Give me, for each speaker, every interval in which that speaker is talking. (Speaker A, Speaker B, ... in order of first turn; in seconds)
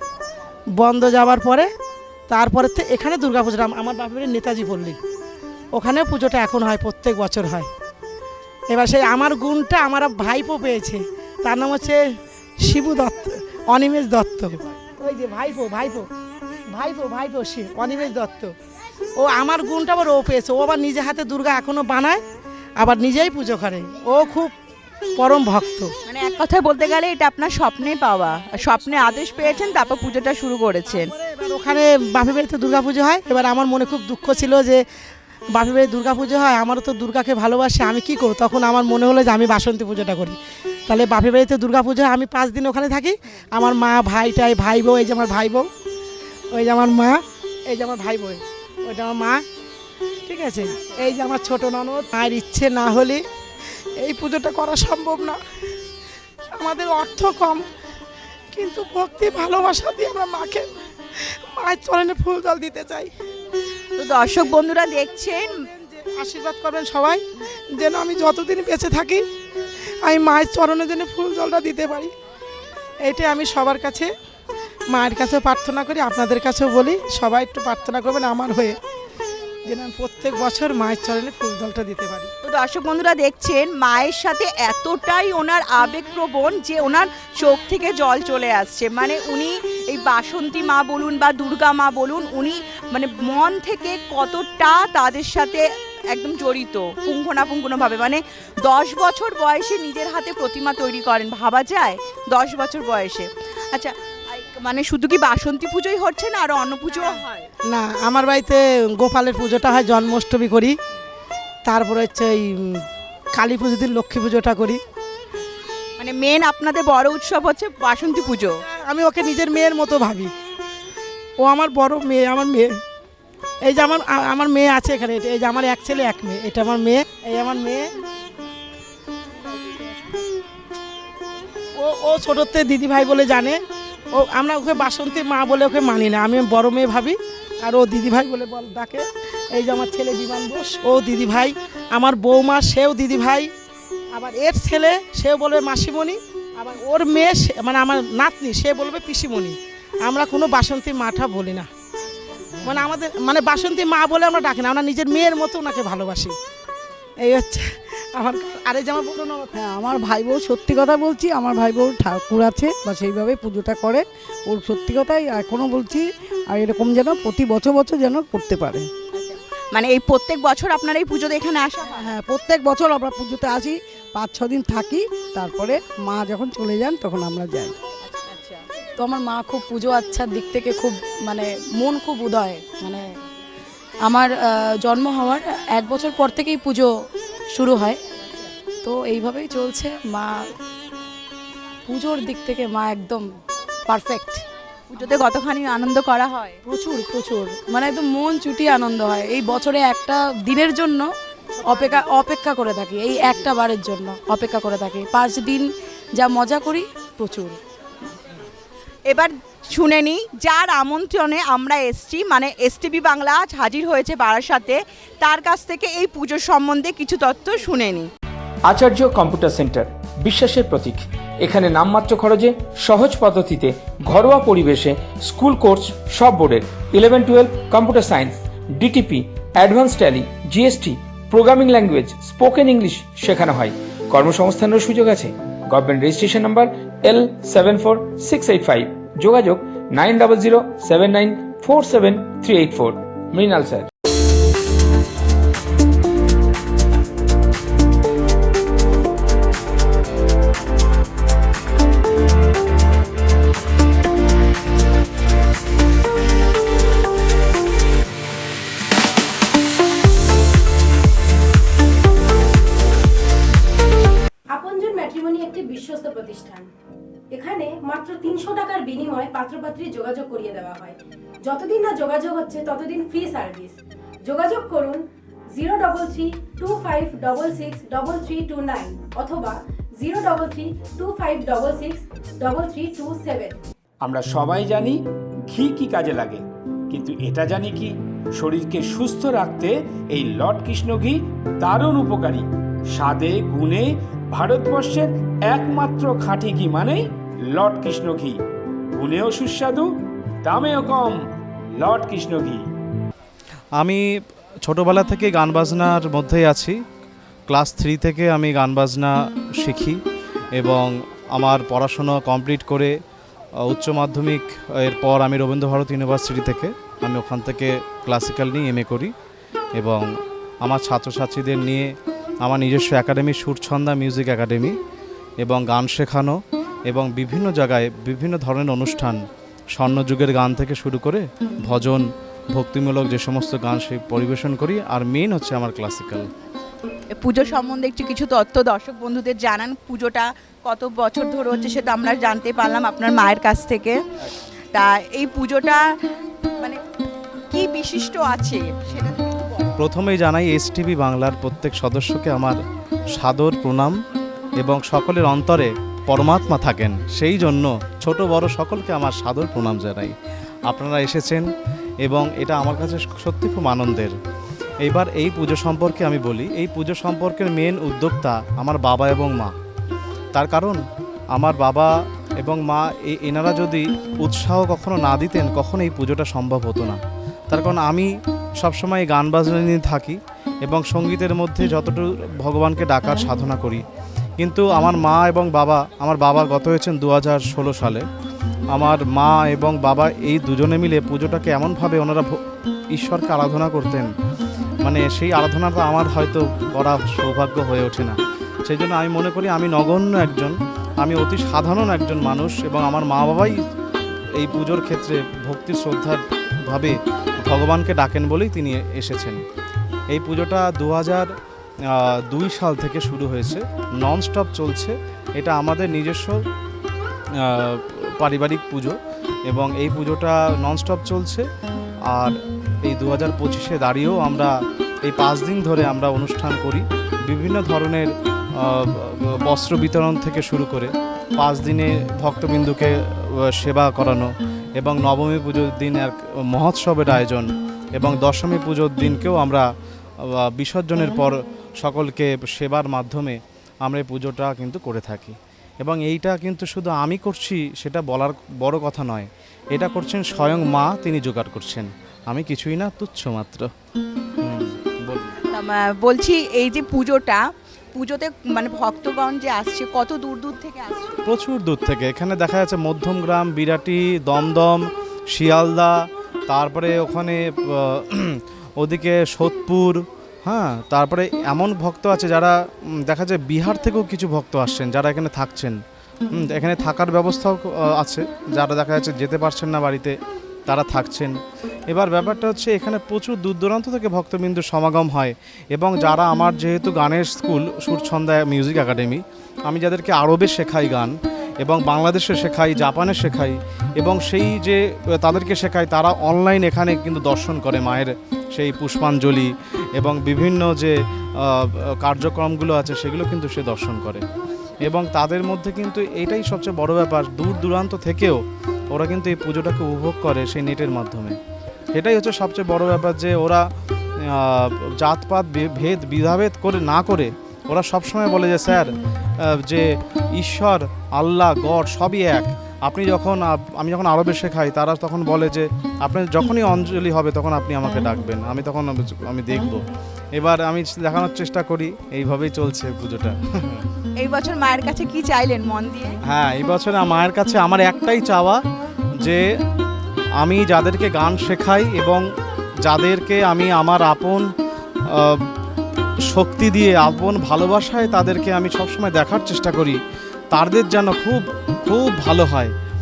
Speaker A: 0.8-1.7, 2.3-5.0, 5.7-7.7, 8.7-12.0, 12.6-16.1, 16.7-18.5, 19.2-22.2, 22.8-24.5, 25.2-25.9, 31.1-34.8, 35.5-40.4, 40.9-45.7, 46.5-49.4, 50.2-53.2, 54.0-55.4, 56.6-57.6, 58.5-63.1, 66.0-67.2, 67.8-69.2, 70.0-72.1, 73.0-74.1, 74.9-78.8, 79.7-82.3, 107.7-110.8, 111.7-114.8, 118.7-120.3, 121.4-122.7, 123.7-127.9, 131.8-133.6, 134.1-143.5, 144.1-151.7, 152.6-156.3, 157.2-159.5
Speaker B: 26.1-31.1, 64.0-65.5, 82.4-107.5, 116.0-118.5, 169.1-172.1, 178.3-178.6, 194.9-196.6, 209.1-218.1, 337.1-344.0, 344.7-345.8, 347.5-349.7, 455.5-457.4, 457.9-461.2, 534.2-536.2
Speaker C: 159.6-168.9, 171.9-177.7
Speaker D: 179.0-183.1, 184.0-186.9, 187.5-188.0, 188.8-190.4, 191.9-193.2, 193.9-194.4, 196.7-201.1, 201.6-207.6
Speaker E: 218.7-243.9, 284.0-298.4, 298.9-299.9, 300.4-301.2, 301.8-302.6
Speaker F: 264.5-266.7, 267.3-275.0, 275.5-283.6
Speaker G: 303.8-304.0, 304.6-306.8, 307.5-310.0, 310.6-312.9, 313.6-319.1, 319.8-320.1, 320.6-321.9, 322.4-324.8, 325.4-329.2, 329.7-336.3, 349.8-352.6, 353.1-353.9, 354.6-360.1, 360.7-361.5, 362.0-364.1, 364.8-369.5, 370.3-383.8, 384.4-388.0, 388.7-392.4, 392.9-394.1, 394.8-403.6, 404.3-409.4, 410.1-411.3, 411.9-416.4, 417.4-419.0, 419.5-421.5, 422.1-439.7, 440.2-453.7, 454.4-455.4, 461.2-475.8, 476.3-480.1, 480.7-481.4, 481.9-504.2, 504.8-508.4, 508.9-511.4, 511.9-513.6, 514.2-518.9, 519.4-529.8, 530.3-533.8, 536.3-538.6, 540.4-542.2, 542.8-544.5, 545.1-545.5, 546.3-550.0, 550.5-552.7